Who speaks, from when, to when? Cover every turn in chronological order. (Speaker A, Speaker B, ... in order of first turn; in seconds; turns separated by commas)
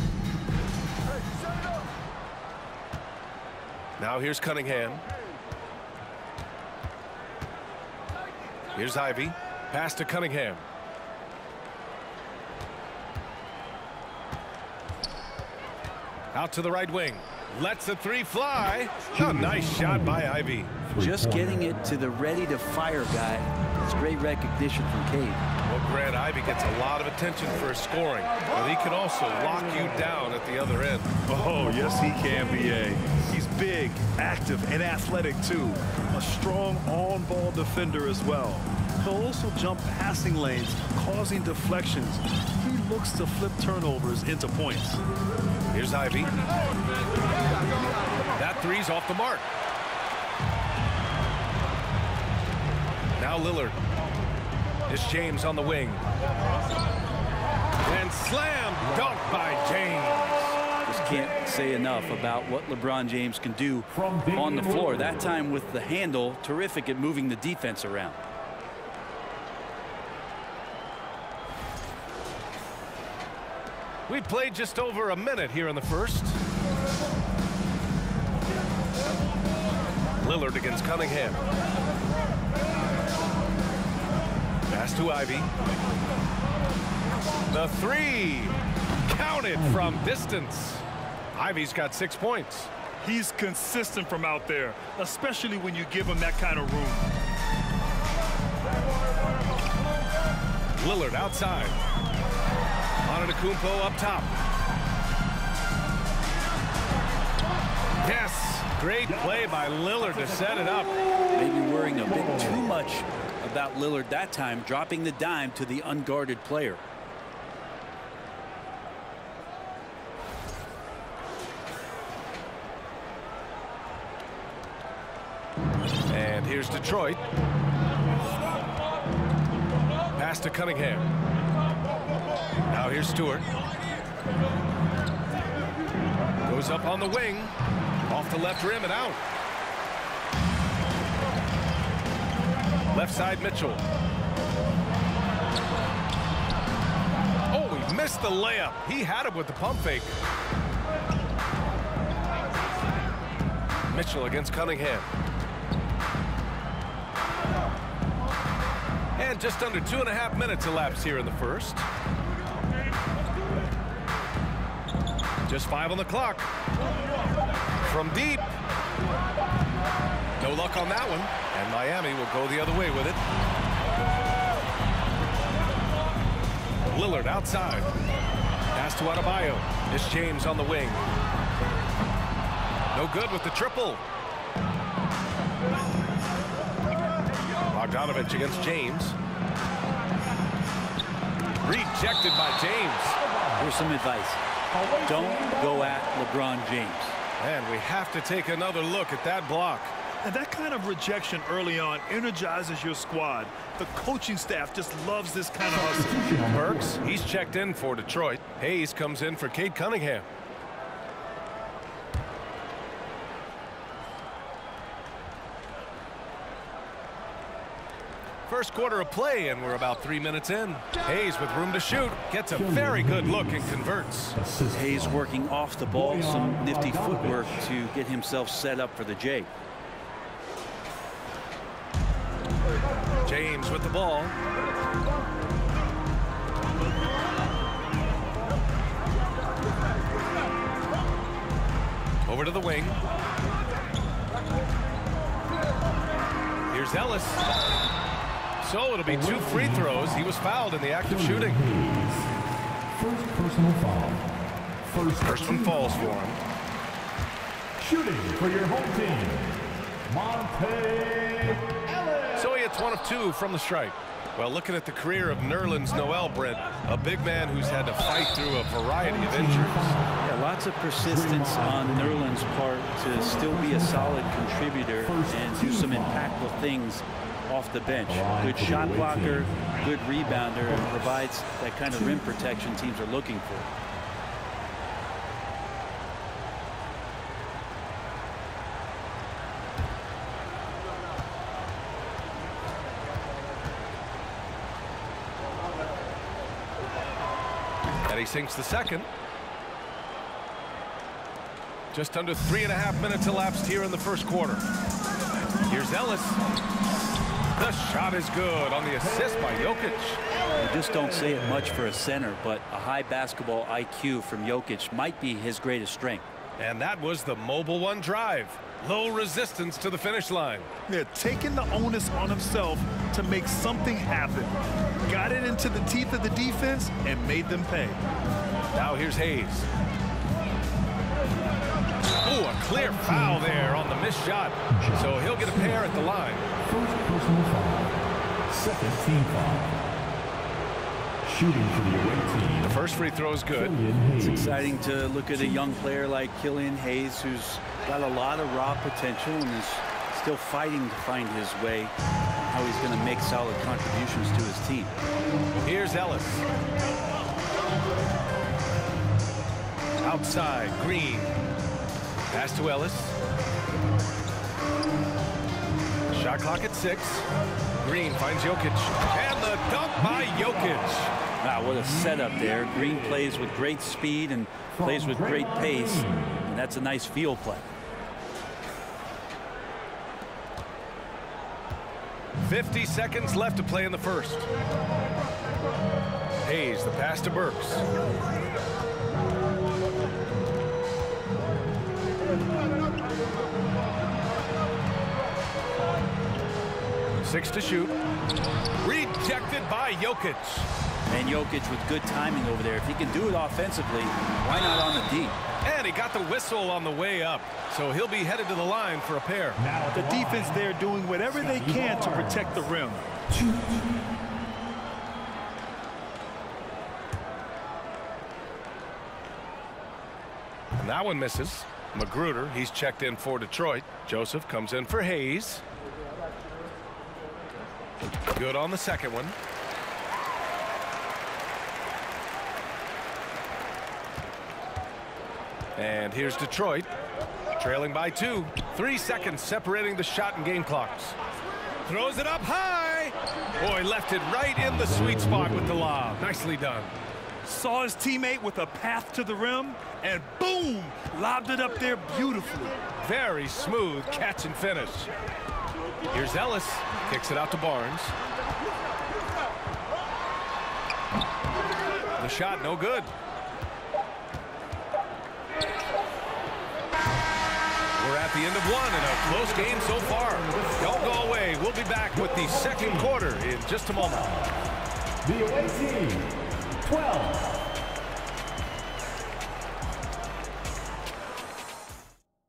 Speaker A: 4.0-5.0, Speaker A: 8.7-10.6, Speaker A: 16.3-20.8, Speaker B: 19.1-20.2, Speaker B: 20.9-21.7, Speaker C: 20.9-25.4, Speaker A: 25.6-31.1, Speaker D: 31.2-45.0, Speaker A: 45.7-46.3, Speaker A: 48.4-49.4, Speaker A: 53.2-53.8, Speaker A: 54.9-56.0, Speaker A: 57.8-60.6, Speaker C: 60.9-68.2, Speaker B: 63.9-65.3, Speaker A: 74.1-76.4, Speaker A: 80.2-81.4, Speaker A: 84.7-85.5, Speaker A: 87.5-92.7, Speaker B: 89.5-90.0, Speaker D: 93.0-97.1, Speaker A: 100.8-101.8, Speaker A: 103.0-104.3, Speaker A: 108.0-110.9, Speaker B: 110.1-110.4, Speaker C: 111.3-116.8, Speaker B: 112.1-112.7, Speaker A: 126.1-127.2, Speaker A: 130.1-131.1, Speaker A: 132.7-133.5, Speaker A: 136.4-137.5, Speaker A: 138.0-139.2, Speaker A: 142.9-143.8, Speaker A: 147.5-150.1, Speaker A: 153.9-155.1, Speaker A: 159.2-161.8, Speaker A: 165.5-166.5, Speaker A: 167.8-168.5, Speaker A: 170.4-173.2, Speaker A: 176.9-177.9, Speaker A: 178.7-181.0, Speaker A: 182.9-184.0, Speaker A: 187.7-189.2, Speaker A: 191.6-193.2, Speaker C: 193.6-194.4, Speaker B: 194.7-196.0, Speaker C: 195.0-197.2, Speaker A: 197.4-199.9, Speaker D: 200.2-206.2, Speaker B: 205.7-207.0, Speaker A: 206.5-210.3, Speaker A: 218.5-224.3, Speaker B: 222.5-223.8, Speaker B: 224.3-225.2, Speaker C: 224.7-229.5, Speaker B: 225.9-227.7, Speaker A: 233.2-234.3, Speaker A: 242.2-243.0, Speaker A: 246.7-247.4, Speaker A: 248.6-251.6, Speaker B: 249.1-250.2, Speaker B: 251.0-252.3, Speaker B: 252.9-254.3, Speaker B: 254.8-256.1, Speaker A: 255.2-256.4, Speaker B: 257.8-259.5, Speaker B: 260.1-262.4, Speaker A: 262.4-270.0, Speaker B: 269.0-270.1, Speaker C: 270.2-283.7, Speaker B: 271.0-272.3, Speaker B: 273.1-274.3, Speaker B: 275.0-276.2, Speaker B: 278.1-279.7, Speaker B: 280.2-281.2, Speaker B: 281.9-282.2, Speaker A: 298.1-299.1, Speaker A: 301.9-304.6, Speaker A: 305.7-306.4, Speaker A: 307.6-310.2, Speaker C: 310.6-316.3, Speaker A: 316.6-320.7, Speaker D: 320.9-328.0, Speaker A: 328.7-329.7, Speaker A: 332.2-336.5, Speaker B: 332.8-333.8, Speaker B: 334.7-335.9, Speaker B: 336.6-338.0, Speaker B: 338.5-339.8, Speaker B: 341.2-342.8, Speaker A: 342.6-343.7, Speaker B: 343.5-344.8, Speaker C: 344.2-351.9, Speaker B: 345.3-345.7, Speaker C: 352.5-354.9, Speaker A: 355.6-356.4, Speaker A: 360.0-361.3, Speaker A: 362.3-363.2, Speaker A: 366.1-367.2, Speaker A: 367.8-371.1, Speaker C: 371.4-377.7, Speaker B: 374.7-376.4, Speaker A: 382.4-384.5, Speaker A: 386.4-387.9, Speaker A: 397.2-397.9, Speaker A: 398.8-400.7, Speaker C: 401.1-405.4, Speaker A: 405.6-409.6, Speaker B: 409.6-410.7, Speaker D: 409.9-413.1, Speaker B: 411.2-412.6, Speaker B: 413.3-413.8, Speaker A: 420.8-425.6, Speaker A: 428.3-429.3, Speaker A: 435.8-436.9, Speaker A: 437.6-441.2, Speaker A: 441.8-446.9, Speaker B: 444.7-445.9, Speaker D: 447.4-452.8, Speaker A: 453.0-455.1, Speaker A: 456.1-458.1, Speaker A: 462.2-463.1, Speaker A: 468.0-474.4, Speaker B: 469.3-471.2, Speaker B: 472.1-473.2, Speaker B: 474.2-474.5, Speaker B: 475.2-477.7